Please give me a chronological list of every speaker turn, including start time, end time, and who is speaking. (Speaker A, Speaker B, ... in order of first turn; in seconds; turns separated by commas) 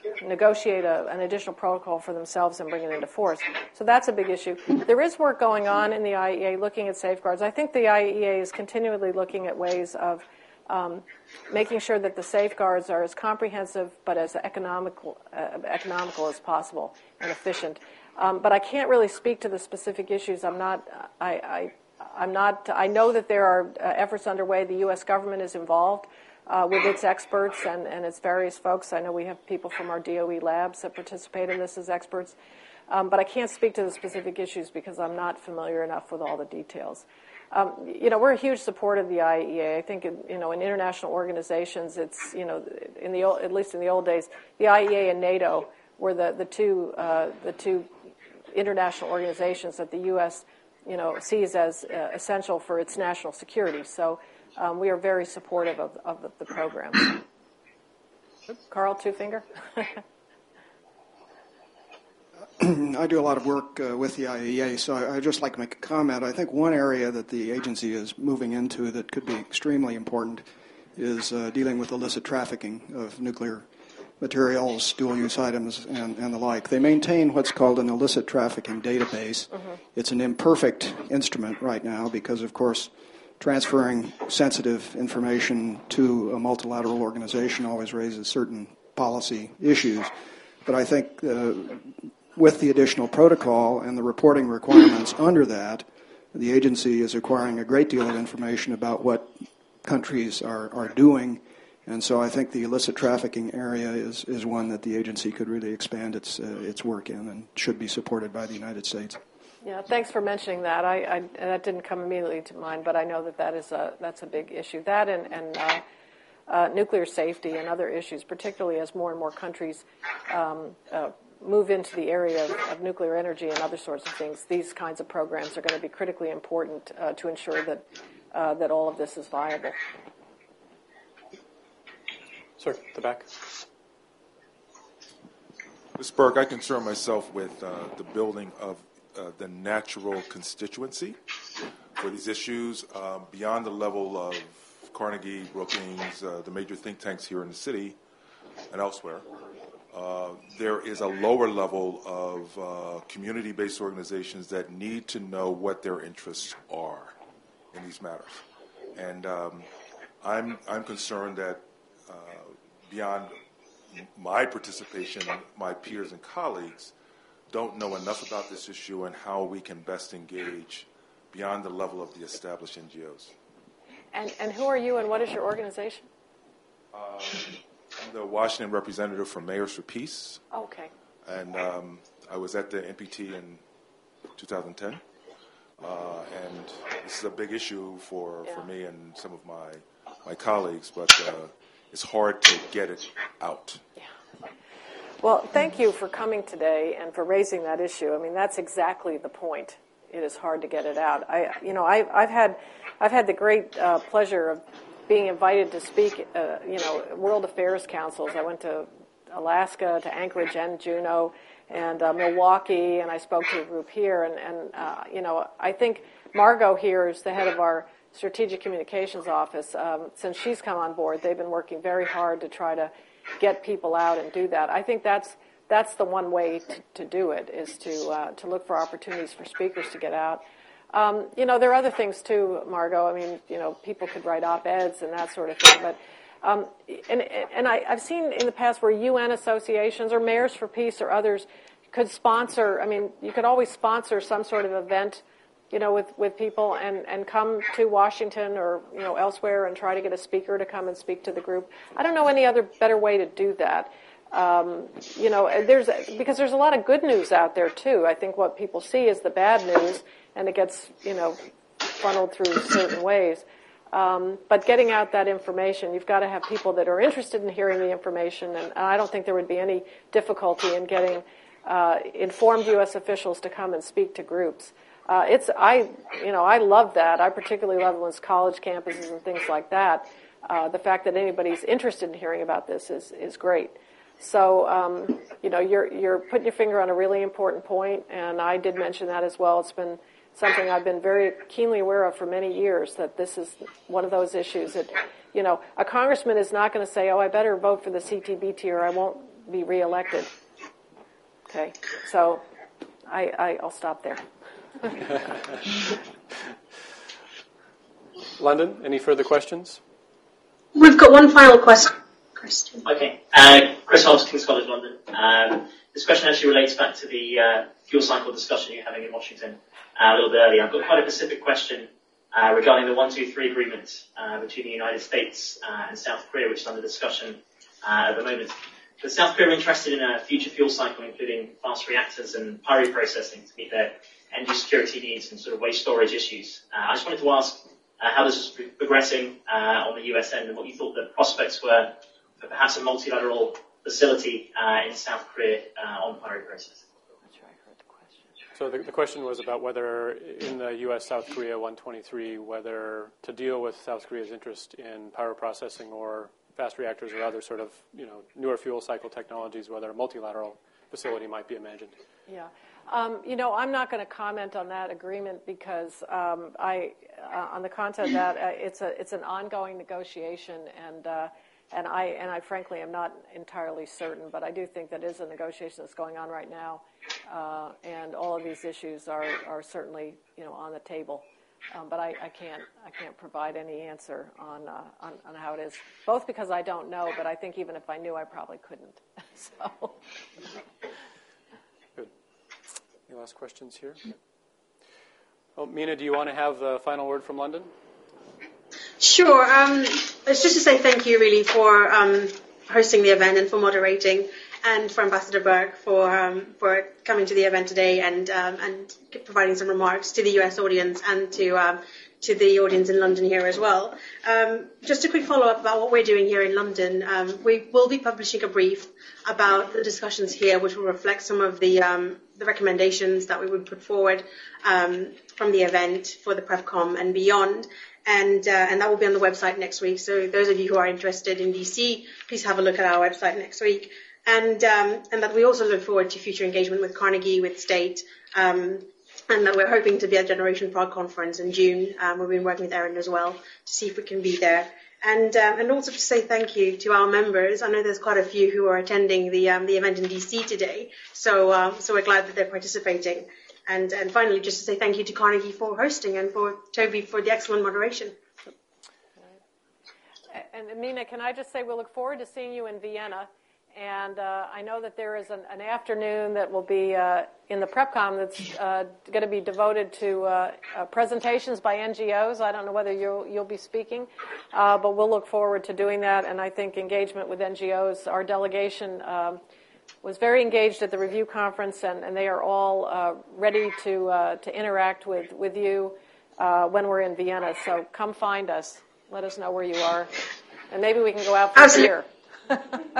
Speaker A: 0.2-32.4, Speaker A: 32.9-47.9, Speaker A: 48.5-57.2, Speaker A: 58.5-60.0, Speaker B: 62.6-73.7, Speaker B: 74.2-90.1, Speaker B: 90.6-109.2, Speaker A: 109.6-115.8, Speaker A: 116.5-129.8, Speaker C: 132.6-133.3, Speaker D: 136.0-141.2, Speaker D: 142.0-148.0, Speaker D: 148.7-149.2, Speaker D: 149.9-157.2, Speaker D: 157.7-158.4, Speaker D: 158.9-159.7, Speaker D: 160.2-163.3, Speaker D: 163.9-166.9, Speaker D: 167.5-173.3, Speaker A: 174.1-176.1, Speaker D: 176.9-180.4, Speaker A: 180.5-180.9, Speaker D: 181.2-183.6, Speaker D: 184.3-185.0, Speaker D: 185.8-193.8, Speaker A: 188.4-188.7, Speaker A: 195.2-261.4, Speaker A: 261.9-300.3, Speaker A: 301.5-302.4, Speaker A: 303.1-304.2, Speaker C: 308.4-309.8, Speaker E: 310.7-312.9, Speaker F: 312.8-346.8, Speaker A: 347.3-348.2, Speaker C: 348.5-361.9, Speaker A: 362.3-389.9, Speaker C: 393.1-394.0, Speaker C: 395.6-397.7, Speaker E: 399.0-458.1, Speaker A: 460.3-479.4, Speaker A: 480.0-490.1, Speaker A: 490.7-492.6, Speaker E: 491.6-491.9